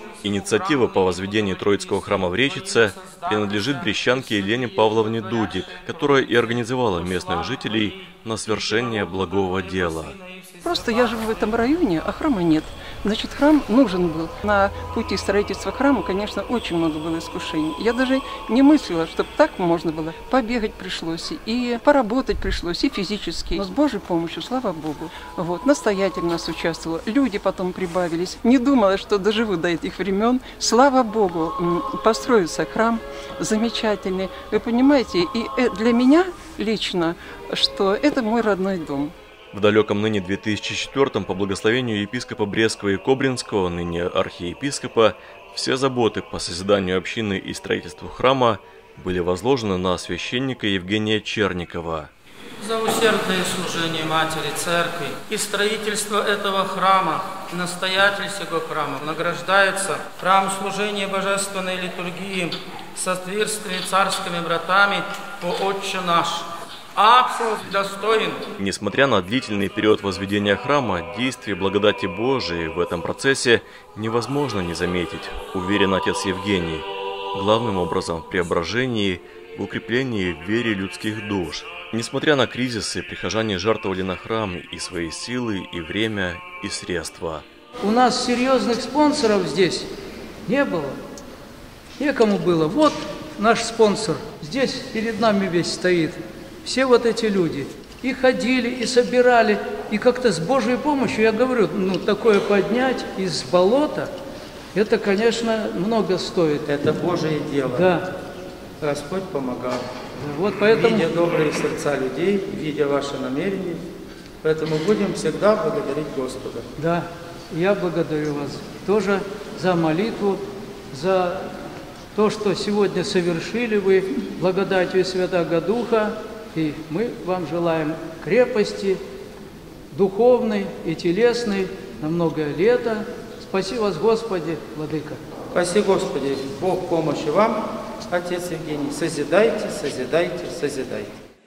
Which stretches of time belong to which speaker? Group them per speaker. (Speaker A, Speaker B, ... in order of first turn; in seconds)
Speaker A: 0.2-10.2, 39.5-52.1, 68.6-87.5
Speaker B: 0.5-3.9, 4.9-5.5, 7.2-7.5, 9.2-10.7, 52.6-68.5, 106.7-108.0, 108.8-109.8, 110.6-113.8, 114.4-116.7, 135.5-141.1
Speaker C: 10.6-39.1
Speaker D: 87.8-89.9, 90.5-91.0, 92.0-104.1, 104.7-106.7, 107.7-108.0, 110.2-111.1, 116.8-121.6, 122.1-129.0, 129.9-135.2